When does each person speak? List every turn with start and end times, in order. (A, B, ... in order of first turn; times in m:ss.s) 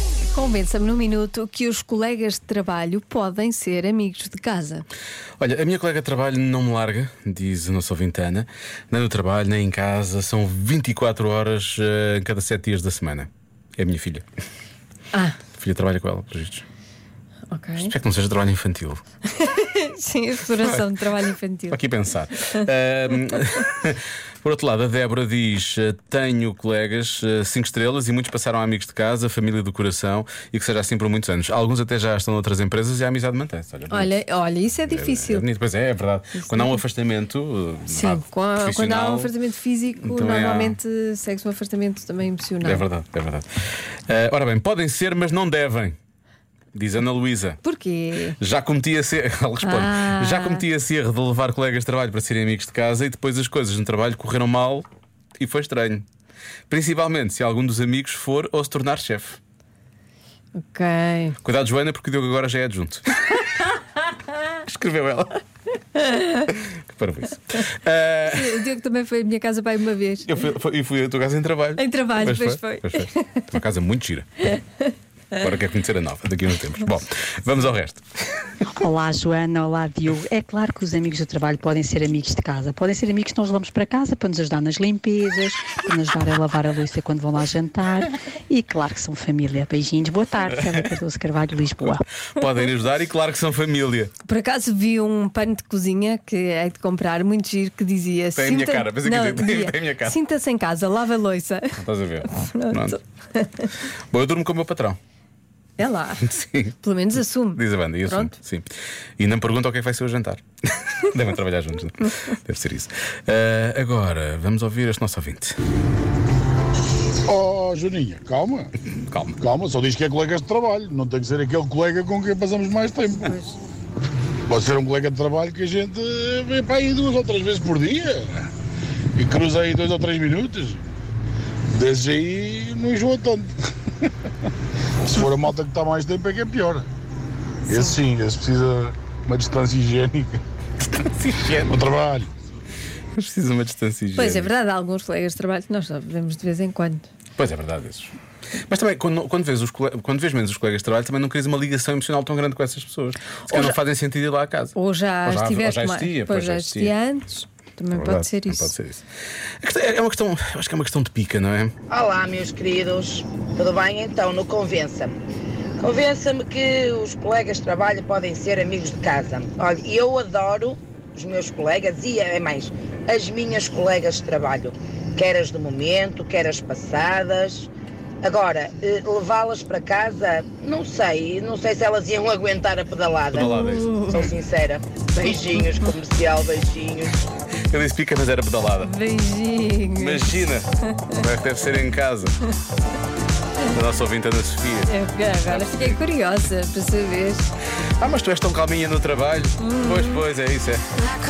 0:00.3-0:04.8 A
0:05.4-0:14.2 B
0:15.1-0:15.4 A
0:15.6-0:16.6 B
0:17.5-0:17.9 A
0:17.8-0:19.0 B
0:19.3-0:21.8 A
0:21.7-0:34.2 B
0:22.4-0:22.7 A
0:33.9-0:35.4 A
0:34.8-0:39.3 B
0:36.4-0:36.8 A
0:37.9-0:42.8 A
0:40.0-0:40.8 B
0:42.6-0:46.0 B
0:46.7-0:47.6 B
0:47.6-0:48.4 A
0:48.4-0:54.8 B
0:49.6-0:50.6 A
0:55.4-0:56.0 B
0:56.7-0:59.4 B
1:00.6-1:01.4 A
1:01.4-1:03.2 B
1:04.6-1:05.4 B
1:06.5-1:08.6 B
1:08.2-1:10.3 A
1:10.2-1:14.4 B
1:11.8-1:13.5 A
1:14.6-1:14.8 A
1:15.3-1:18.6 B
1:18.8-1:32.0 C
1:32.4-1:34.1 B
1:34.2-1:43.7 A
1:38.4-1:40.2 B
1:41.8-1:43.0 B
1:44.1-1:45.0 B
1:45.8-1:48.3 A
1:46.4-1:46.7 B
1:47.5-1:50.4 B
1:51.0-1:55.6 B
1:57.2-1:58.7 D
1:59.1-1:59.4 B
1:59.4-2:03.3 D
2:03.1-2:03.6 A
2:04.5-2:08.5 D
2:09.2-2:10.8 D
2:11.7-2:13.5 D
2:15.0-2:16.9 D
2:17.7-2:20.4 D
2:21.1-2:21.8 B
2:21.6-2:22.3 D
2:23.1-2:24.5 B
2:24.2-2:27.1 A
2:27.4-2:28.1 B
2:28.7-2:36.9 B
2:33.5-2:33.8 A
2:34.7-2:38.7 A
2:37.9-2:39.0 B
2:39.6-2:41.7 B
2:41.9-2:45.1 E
2:45.8-2:57.7 E
2:58.2-3:07.2 E
3:03.3-3:04.3 B
3:03.3-3:04.3 A
3:07.7-3:08.9 B
3:08.8-3:11.1 A
3:09.9-3:12.4 B
3:13.7-3:14.9 B
3:14.9-3:17.5 A
3:15.4-3:16.0 B
3:18.0-3:20.8 B
3:19.6-3:20.2 A